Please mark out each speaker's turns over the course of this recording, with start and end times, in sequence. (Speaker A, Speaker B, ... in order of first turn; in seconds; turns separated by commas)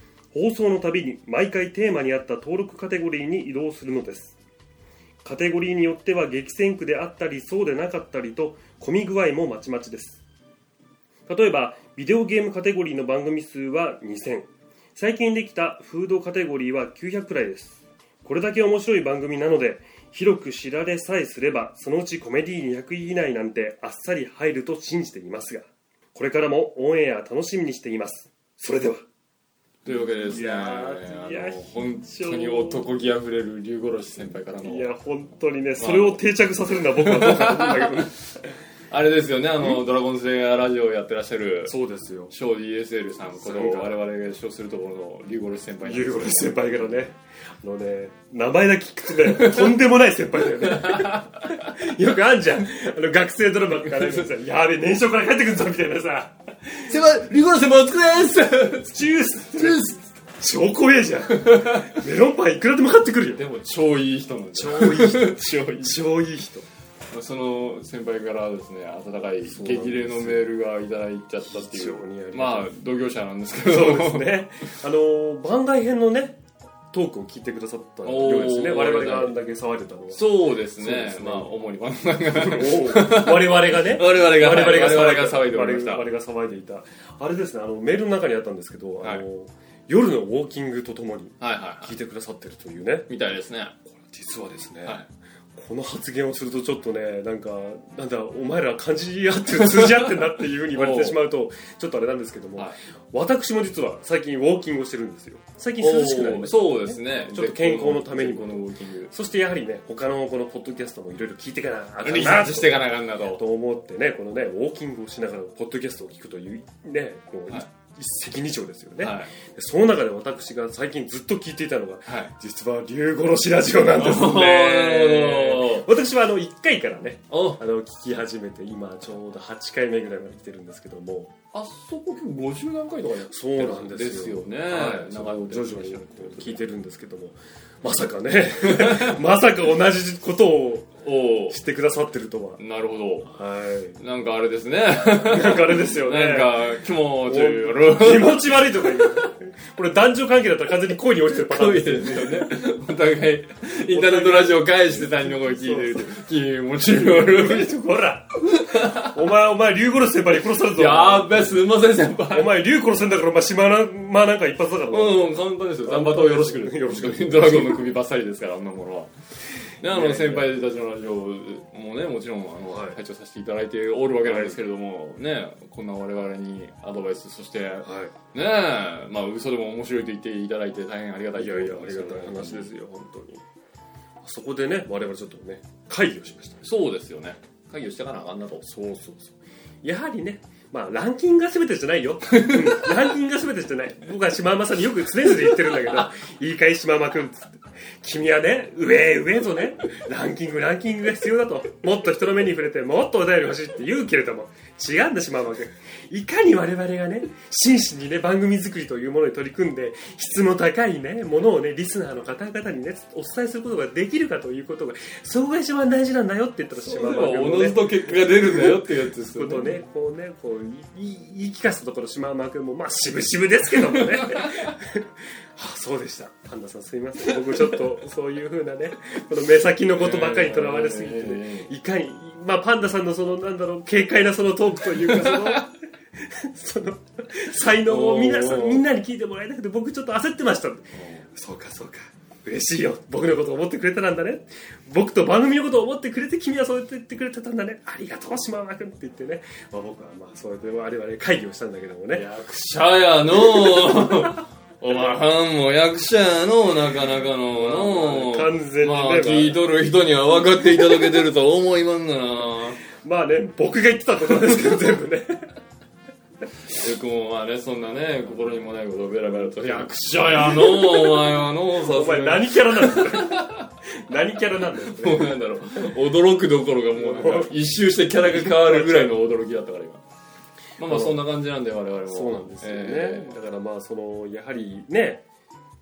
Speaker A: 0.3-4.4, Speaker A: 5.2-10.2, Speaker A: 11.3-29.1, Speaker B: 29.8-34.9, Speaker A: 29.9-32.9, Speaker A: 34.6-38.5, Speaker B: 35.8-36.2, Speaker B: 37.0-38.1, Speaker B: 38.9-41.7, Speaker A: 41.6-42.3, Speaker B: 42.3-46.8, Speaker A: 43.4-43.9, Speaker A: 45.8-56.9, Speaker B: 49.3-49.6, Speaker B: 50.6-51.7, Speaker B: 53.8-54.3, Speaker B: 56.8-60.0, Speaker A: 58.9-63.4, Speaker B: 61.3-62.0, Speaker B: 63.4-66.0, Speaker A: 64.5-66.7, Speaker B: 67.1-74.4, Speaker A: 69.4-70.5, Speaker A: 71.5-72.7, Speaker A: 73.6-76.4, Speaker A: 76.9-81.5, Speaker B: 78.0-79.4, Speaker B: 80.1-86.0, Speaker A: 82.2-93.1, Speaker B: 91.4-91.9, Speaker B: 93.1-93.8, Speaker A: 93.9-95.0, Speaker A: 95.5-131.3, Speaker B: 99.7-100.1, Speaker B: 100.7-101.2, Speaker B: 105.8-109.1, Speaker B: 112.0-113.4, Speaker B: 119.0-119.3, Speaker B: 122.0-122.3, Speaker B: 123.9-125.9, Speaker B: 127.3-127.6, Speaker B: 131.5-136.6, Speaker A: 133.3-142.6, Speaker B: 138.6-139.2, Speaker B: 141.0-141.6, Speaker B: 142.6-143.3, Speaker A: 143.2-144.0, Speaker B: 144.0-149.3, Speaker A: 145.1-146.7, Speaker A: 147.2-152.6, Speaker B: 151.3-157.7, Speaker A: 153.9-156.1, Speaker A: 156.9-161.5, Speaker B: 158.4-159.2, Speaker B: 160.6-162.5, Speaker A: 162.3-167.9, Speaker B: 164.9-169.1, Speaker B: 169.7-182.7, Speaker A: 169.8-170.5, Speaker A: 172.7-173.0, Speaker A: 174.2-174.6, Speaker A: 177.8-178.1, Speaker A: 181.3-183.4, Speaker A: 184.2-186.7, Speaker B: 186.6-188.7, Speaker A: 188.6-252.2, Speaker B: 192.3-192.8, Speaker B: 216.7-219.8, Speaker B: 223.8-224.7, Speaker B: 229.9-231.7, Speaker B: 235.0-235.7, Speaker B: 237.8-238.8, Speaker B: 240.9-241.3, Speaker B: 252.1-262.8, Speaker A: 257.5-259.6, Speaker A: 262.8-265.5, Speaker B: 266.7-273.7, Speaker A: 269.2-275.9, Speaker B: 274.8-280.0, Speaker A: 276.9-279.1, Speaker B: 280.8-283.4, Speaker A: 280.9-281.2, Speaker A: 282.1-285.2